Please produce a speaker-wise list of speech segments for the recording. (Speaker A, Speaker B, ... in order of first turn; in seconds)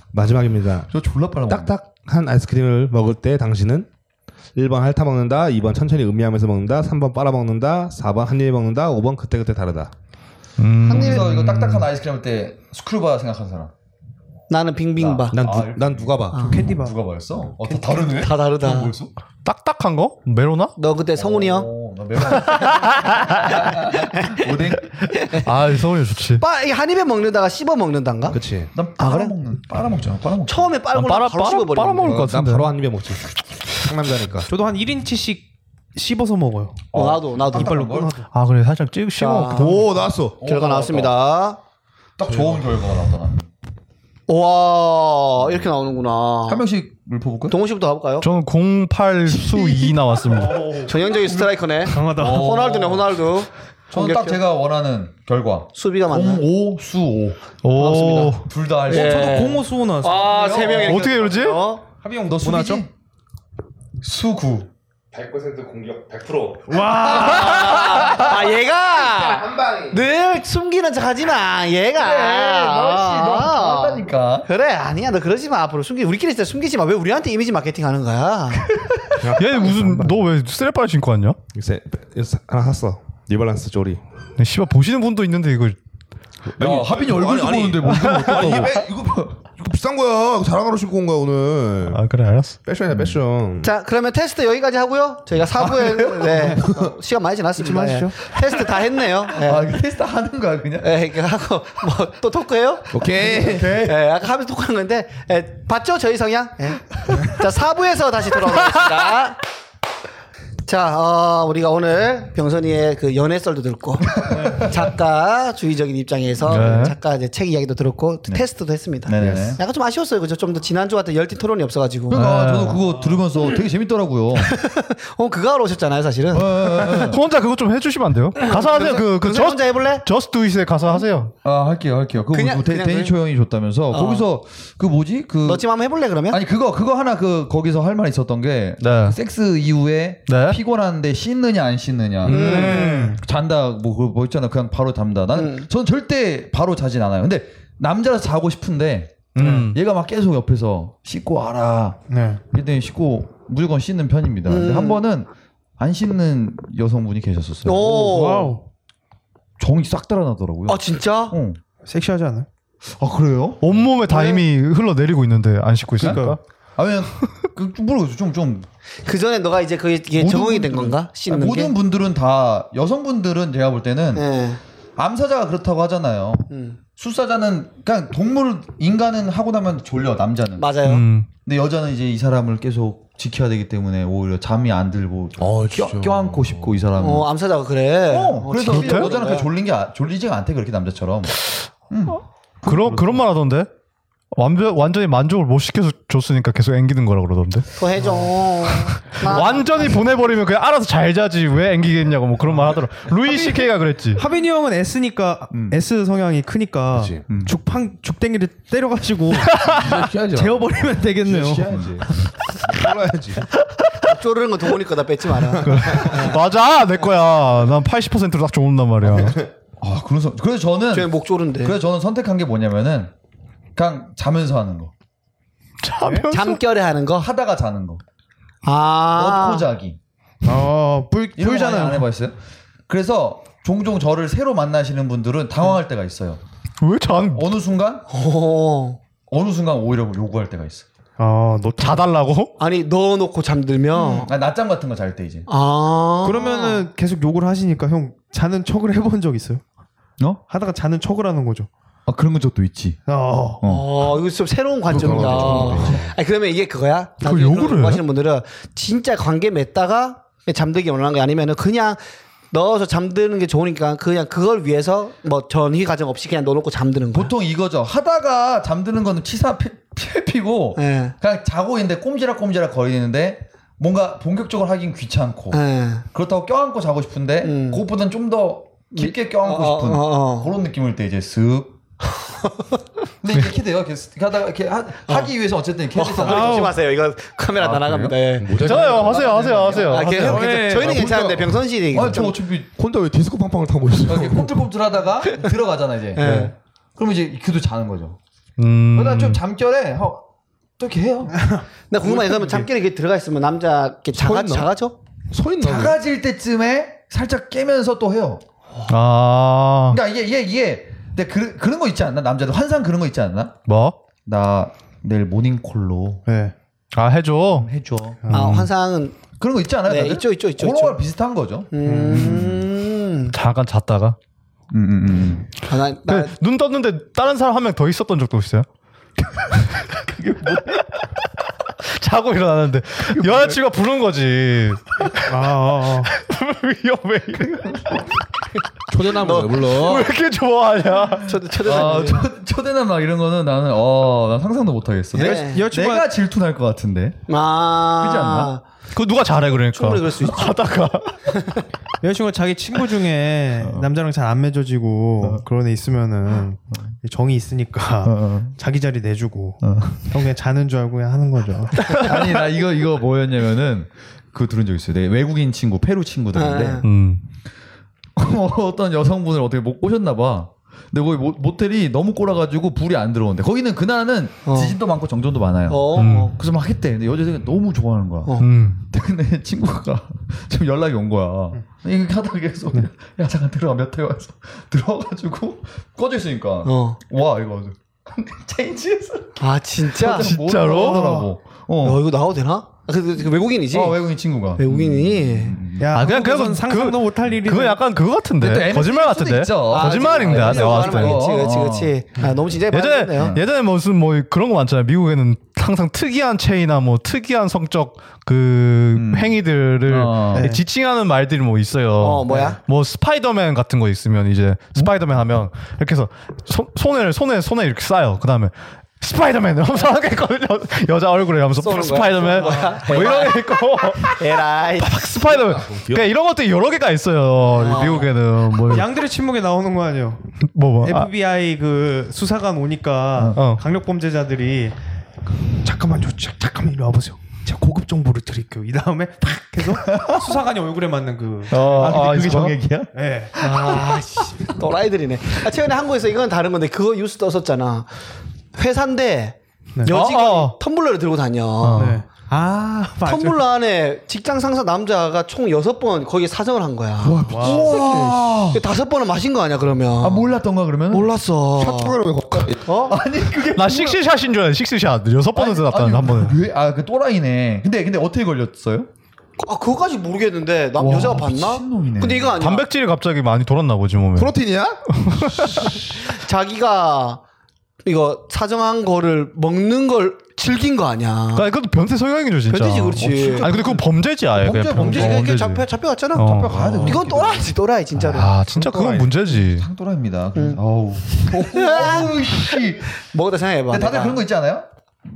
Speaker A: 0.1-0.9, 1.5-3.9, 4.5-9.9, 15.3-16.6, 28.3-28.7, 32.0-33.2, 33.8-34.5, 39.5-40.4, 42.3-42.6, 65.1-70.0, 79.2-80.0, 81.5-84.0, 86.5-92.0, 92.6-93.7, 102.9-103.8, 119.2-119.5, 185.4-186.8, 206.9-207.2, 209.6-213.5, 215.7-216.2, 219.1-219.5, 254.9-256.1, 288.4-289.3, 290.4-291.6, 292.8-294.6, 296.2-296.5, 304.1-304.7, 305.3-306.0, 338.9-340.1, 425.3-426.0, 457.0-458.3, 461.6-462.8, 474.1-474.9, 488.5-489.1
Speaker B: 0.9-1.7, 10.9-13.7, 15.0-19.1, 21.1-25.1, 28.7-30.7, 36.9-38.1, 40.4-41.1, 42.2-43.5, 45.4-45.7, 46.5-47.5, 51.2-53.1, 53.9-61.0, 62.3-62.9, 64.0-64.7, 72.0-74.5, 78.7-79.2, 86.6-89.3, 92.9-93.2, 95.6-96.5, 99.4-100.9, 103.2-104.0, 114.1-114.8, 116.5-116.9, 119.0-119.6, 122.1-124.5, 126.3-127.2, 131.4-135.6, 136.3-152.0, 152.5-157.9, 159.6-161.6, 163.0-163.9, 166.0-168.7, 170.2-174.2, 175.0-180.7, 181.4-187.3, 188.1-191.4, 191.9-192.2, 205.5-205.8, 207.3-207.5, 211.6-212.0, 219.8-223.1, 223.8-224.9, 227.2-228.0, 229.2-230.0, 231.4-232.3, 232.9-236.4, 237.3-238.0, 239.3-240.8, 243.9-245.5, 252.1-253.0, 253.6-253.9, 255.0-256.0, 267.1-275.6, 276.1-281.8, 283.2-286.8, 287.6-291.1, 291.9-292.7, 294.1-298.2, 298.9-300.2, 300.8-301.4, 305.6-308.4, 309.9-313.6, 314.2-316.2, 317.6-318.2, 319.4-322.6, 324.7-325.5, 330.2-330.6, 341.6-347.2, 348.0-348.5, 353.6-353.9, 358.0-358.5, 359.6-360.0, 361.9-366.9, 368.1-392.0, 393.7-395.9, 398.4-401.9, 408.9-410.5, 439.7-440.3, 441.5-443.8, 457.4-458.6, 460.0-461.1, 462.8-464.0, 465.3-468.9, 470.8-472.4, 483.1-483.8, 484.3-485.3, 486.2-487.5, 489.3-492.9, 493.7-494.6
Speaker C: 10.6-11.9, 19.4-20.7, 25.4-26.4, 30.9-32.7, 38.3-39.9, 48.2-50.7, 57.6-58.5, 60.8-61.6, 79.3-81.4, 84.4-85.8, 88.0-88.7, 91.9-92.6, 116.5-117.0, 122.1-122.8, 127.0-131.3, 138.8-139.2, 140.3-140.6, 142.2-143.2, 149.3-149.8, 163.6-166.4, 180.8-181.3, 188.7-189.1, 192.6-193.7, 194.3-197.7, 198.7-204.2, 209.5-210.0, 215.6-219.4, 225.8-226.6, 236.8-237.5, 241.8-242.5, 257.2-258.0, 288.6-290.5, 298.6-299.4, 308.9-310.0, 313.7-314.0, 316.9-317.7, 318.3-318.7, 323.3-324.2, 326.1-328.7, 331.8-335.4, 336.0-338.1, 339.6-341.4, 348.9-351.4, 366.8-367.2, 375.9-376.3, 378.4-378.8, 390.1-391.3, 395.9-401.2, 402.7-428.9, 430.4-431.1, 433.3-433.6, 441.5-442.6, 449.9-450.6, 451.6-452.0, 463.5-466.4, 472.4-474.3, 474.9-475.8, 481.3-487.0, 488.0-489.7
Speaker D: 10.9-11.3, 14.5-15.4, 16.3-16.6, 18.1-18.9, 20.8-21.7, 23.2-25.5, 26.4-28.4, 29.0-29.3, 30.4-32.2, 36.9-37.9, 39.2-39.8, 40.4-41.6, 44.3-46.6, 47.5-48.3, 49.4-49.9, 50.7-54.4, 55.7-56.4, 57.8-58.3, 58.9-61.8, 67.0-78.7, 93.6-99.7, 100.8-103.0, 103.8-109.4, 110.7-122.7, 124.3-127.1, 128.4-130.1, 132.3-133.2, 133.9-134.2, 135.4-136.4, 142.3-143.0, 145.3-145.7, 154.5-155.0, 157.6-158.6, 160.7-161.4, 164.1-164.4, 169.0-171.7, 174.1-174.6, 176.5-176.8, 180.6-181.0, 187.0-189.5, 197.8-200.0, 214.0-216.4, 220.9-221.8, 226.3-227.3, 228.6-229.7, 238.1-239.0, 242.6-244.3, 245.5-246.8, 253.6-267.3, 270.8-271.1, 275.5-276.1, 277.4-277.8, 278.9-280.5, 282.2-282.8, 285.1-285.3, 285.9-292.4, 296.1-296.5, 301.9-304.9, 318.3-319.2, 319.9-321.0, 321.7-323.4, 325.6-326.3, 339.1-339.8, 341.2-342.3, 345.1-345.6, 347.3-348.6, 349.6-350.6, 351.3-351.6, 366.3-366.8, 374.4-374.8, 375.7-376.3, 386.6-387.0, 389.4-390.3, 391.8-394.0, 394.6-395.6, 399.7-403.4, 412.0-412.6, 421.6-425.1, 427.5-428.1, 443.4-447.9, 448.5-451.9, 453.0-460.4, 460.9-462.0, 462.6-463.0, 469.4-472.7, 475.9-477.2, 477.8-481.5, 482.5-483.5, 484.7-488.3, 490.3-490.6, 491.1-494.2
Speaker E: 16.4-16.9, 17.6-18.0, 34.5-35.4, 35.9-36.8, 37.5-38.3, 51.9-52.7, 58.9-60.7, 62.0-62.8, 66.7-68.1, 97.6-98.2, 142.3-143.2, 149.4-149.7, 152.1-152.4, 157.8-158.6, 161.8-162.5, 166.0-166.4, 192.6-193.2, 198.0-198.3, 203.2-212.3, 230.4-232.1, 241.2-242.0, 246.2-249.6, 250.5-251.7, 253.1-253.6, 286.2-286.7, 301.3-302.7, 316.2-316.5, 318.2-318.5, 321.8-322.4, 335.2-336.1, 345.1-346.1, 352.0-362.2, 395.8-397.8, 410.3-410.6, 428.6-434.8, 435.5-443.9, 451.8-453.4, 457.3-457.6, 490.6-491.0